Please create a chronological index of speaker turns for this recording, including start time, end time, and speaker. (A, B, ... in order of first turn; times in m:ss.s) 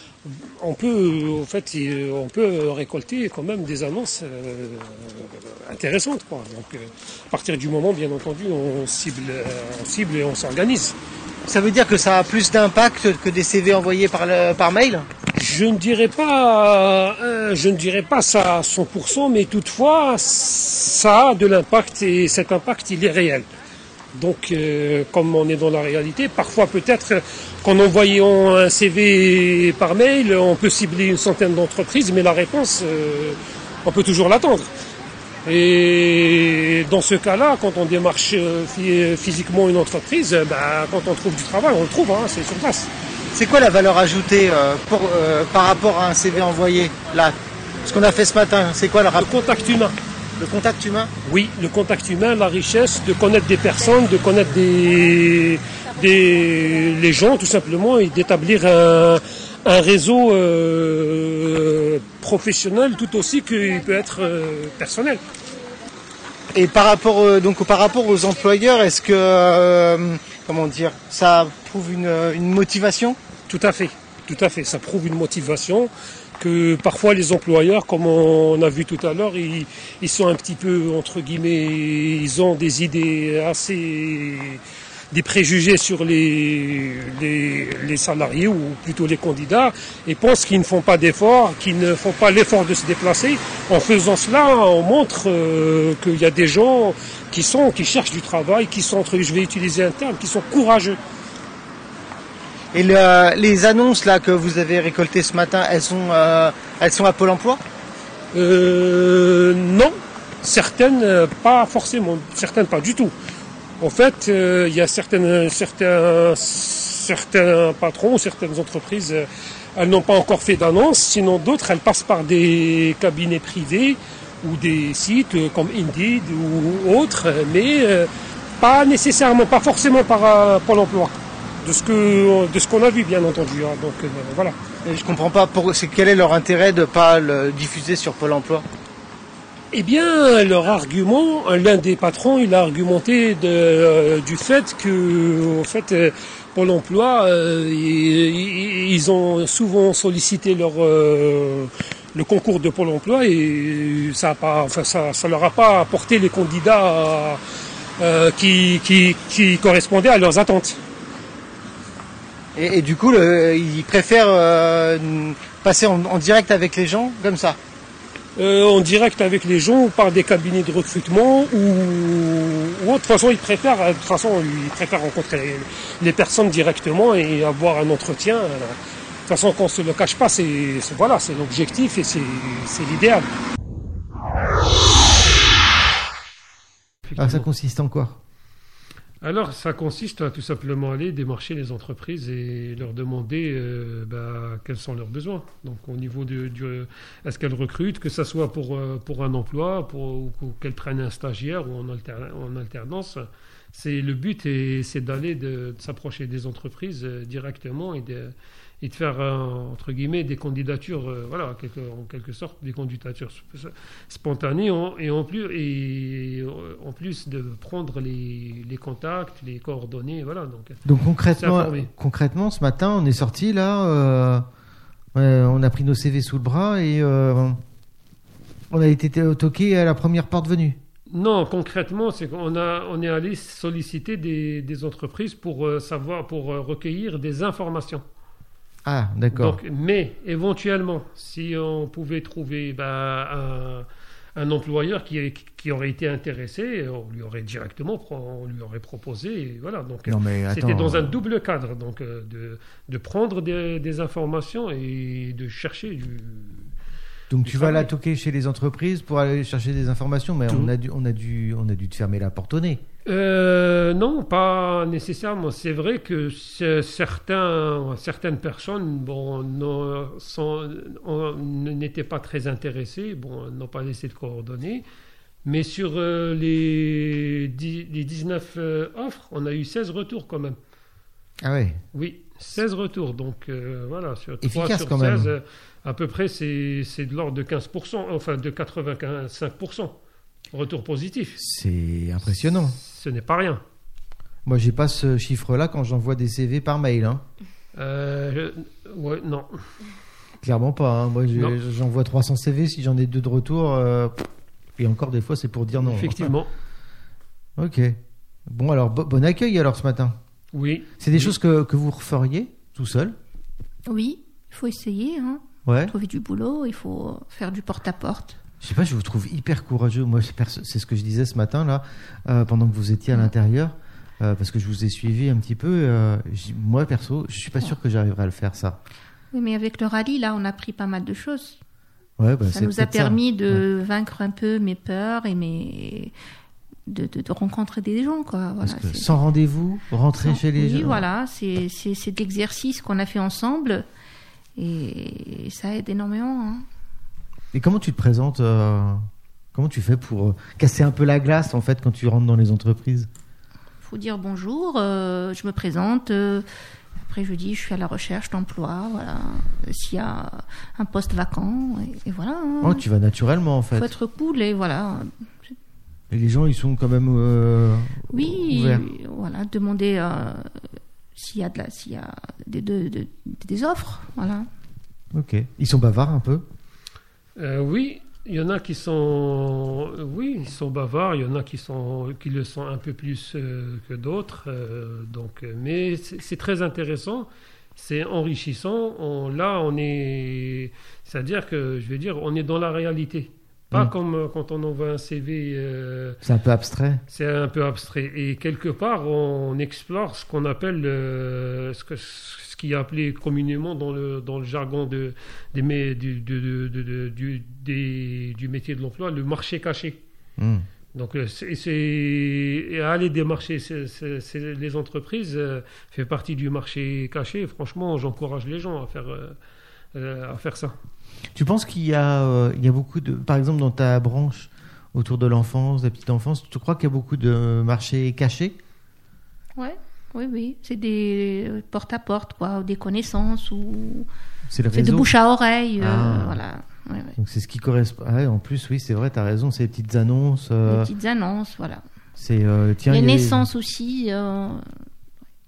0:00.2-0:11.0 A
0:11.4-0:15.1 B
0:15.4-0:23.4 A
0:24.1-0:34.7 A
0:35.4-0:42.9 A
0:43.3-0:49.3 B
0:49.2-0:50.0 A
0:50.4-0:51.1 B
0:51.2-1:05.2 A
1:06.5-1:13.2 B
1:13.5-1:41.0 A
1:42.7-1:47.6 B
1:48.3-1:53.1 A
1:53.8-2:14.5 A
2:14.8-2:18.6 B
2:19.7-2:37.4 A
2:38.0-2:40.8 A
2:42.6-2:47.6 B
2:48.4-3:03.3 A
3:07.0-3:07.4 A
3:07.2-3:08.2 B
3:09.2-3:40.8 A
3:40.8-3:44.4 B
3:41.4-3:41.9 A
3:45.1-3:47.6 B
3:48.7-3:50.8 B
3:51.1-3:58.0 A
3:58.8-3:59.6 B
3:59.3-4:16.7 A
4:10.1-4:11.2 B
4:17.3-4:22.8 B
4:17.4-4:17.9 A
4:23.0-4:34.8 A
4:35.4-4:40.6 A
4:41.4-4:41.8 B
4:41.9-4:50.0 A
4:44.4-4:45.3 B
4:50.5-4:51.4 A
4:51.4-4:52.8 B
4:52.7-4:53.6 A
4:54.4-4:57.2 B
4:57.7-4:59.6 A
5:00.4-5:06.3 B
5:05.8-5:06.5 A
5:07.6-5:10.2 B
5:10.5-5:11.3 A
5:11.0-5:13.2 B
5:13.9-5:18.4 C
5:15.6-5:15.9 B
5:18.6-5:28.8 B
5:29.3-5:31.6 C
5:32.2-5:33.6 B
5:32.5-5:36.1 C
5:36.9-5:39.2 C
5:38.6-5:41.0 B
5:40.2-5:43.8 C
5:44.6-5:46.6 C
5:47.5-5:53.1 B
5:53.8-6:02.8 C
6:02.6-6:03.9 B
6:03.7-6:05.3 C
6:06.1-6:08.8 B
6:08.1-6:14.5 C
6:15.1-6:16.4 B
6:17.4-6:36.2 A
6:36.2-6:37.0 B
6:37.1-6:50.0 A
6:50.4-6:50.6 B
6:50.9-6:59.4 A
6:59.9-7:00.7 A
7:01.3-7:08.6 B
7:09.6-7:14.1 C
7:14.5-7:15.1 B
7:14.7-7:17.2 C
7:15.8-7:16.4 B
7:17.2-7:20.9 B
7:20.6-7:21.8 C
7:22.2-7:23.5 B
7:22.9-7:24.7 C